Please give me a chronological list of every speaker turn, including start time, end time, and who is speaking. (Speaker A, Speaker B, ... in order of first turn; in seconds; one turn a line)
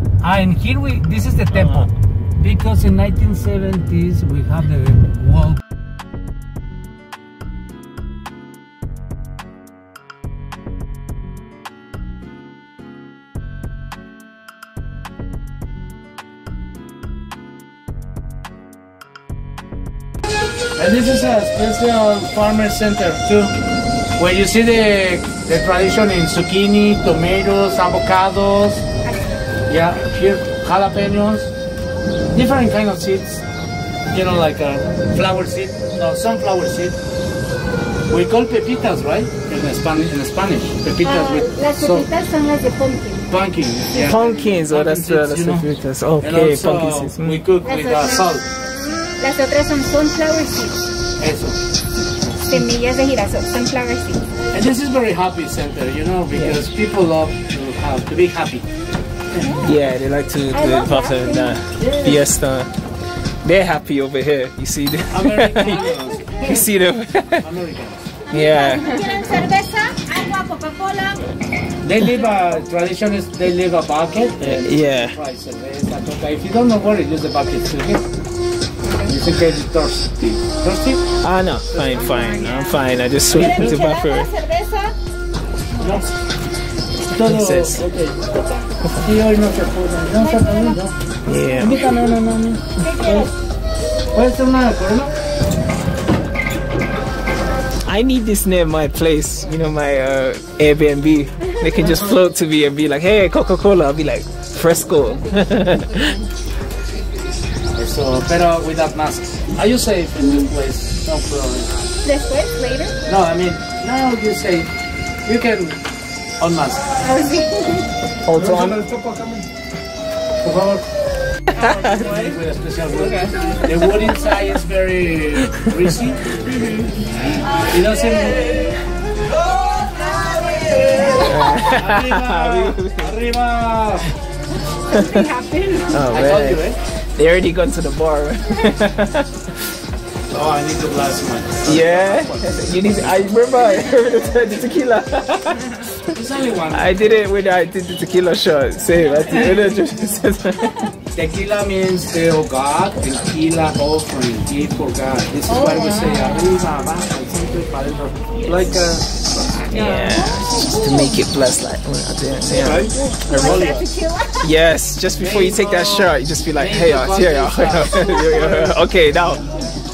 Speaker A: 0.2-5.6
Speaker B: 1.5-1.9
Speaker A: 20.8-23.5
Speaker A: 24.2-28.9
Speaker C: 29.0-29.4
Speaker A: 29.7-31.5
Speaker A: 32.3-33.4
Speaker A: 34.1-37.0
Speaker A: 38.1-42.1
Speaker C: 41.0-43.3
Speaker A: 43.3-48.5
Speaker B: 43.9-47.4
Speaker C: 47.6-48.3
Speaker C: 49.2-50.8
Speaker A: 51.2-51.6
Speaker A: 52.2-52.6
Speaker C: 52.4-54.3
Speaker A: 54.5-58.7
Speaker B: 56.3-56.6
Speaker C: 59.3-59.7
Speaker B: 59.5-62.7
Speaker C: 60.5-61.6
Speaker A: 61.8-62.2
Speaker B: 63.4-67.5
Speaker A: 65.1-66.7
Speaker A: 67.4-68.1
Speaker B: 68.3-69.0
Speaker C: 68.3-71.2
Speaker A: 71.8-78.1
Speaker B: 74.4-75.2
Speaker A: 79.0-81.1
Speaker B: 81.2-84.3
Speaker A: 81.7-82.1
Speaker C: 81.9-84.9
Speaker A: 83.3-84.0
Speaker A: 85.8-86.1
Speaker A: 87.1-88.3
Speaker B: 87.1-87.8
Speaker B: 88.8-89.1
Speaker A: 89.0-90.9
Speaker C: 90.3-90.7
Speaker B: 91.2-91.9
Speaker A: 91.5-93.2
Speaker C: 92.8-93.3
Speaker A: 94.1-95.1
Speaker B: 97.8-106.2
Speaker A: 107.7-111.9
Speaker C: 112.0-113.0
Speaker A: 113.0-114.7
Speaker A: 115.2-115.8
Speaker A: 116.4-116.9
Speaker C: 117.0-117.9
Speaker B: 118.3-118.8
Speaker A: 118.3-119.4
Speaker A: 120.4-120.8
Speaker B: 121.5-122.2
Speaker A: 121.9-126.4
Speaker A: 127.5-128.8
Speaker A: 130.6-134.1
Speaker B: 131.0-133.1
Speaker C: 134.9-136.0
Speaker B: 134.9-135.3
Speaker B: 135.9-136.6
Speaker A: 136.1-136.8
Speaker B: 137.2-139.5
Speaker A: 140.3-143.2
Speaker B: 141.6-145.8
Speaker A: 146.1-147.2
Speaker B: 146.7-150.9
Speaker A: 149.3-149.6
Speaker A: 151.1-159.1
Speaker C: 155.5-156.4
Speaker B: 159.7-163.8
Speaker C: 159.7-161.1
Speaker A: 162.5-163.9
Speaker C: 163.1-164.5
Speaker B: 164.4-169.4
Speaker A: 165.2-169.7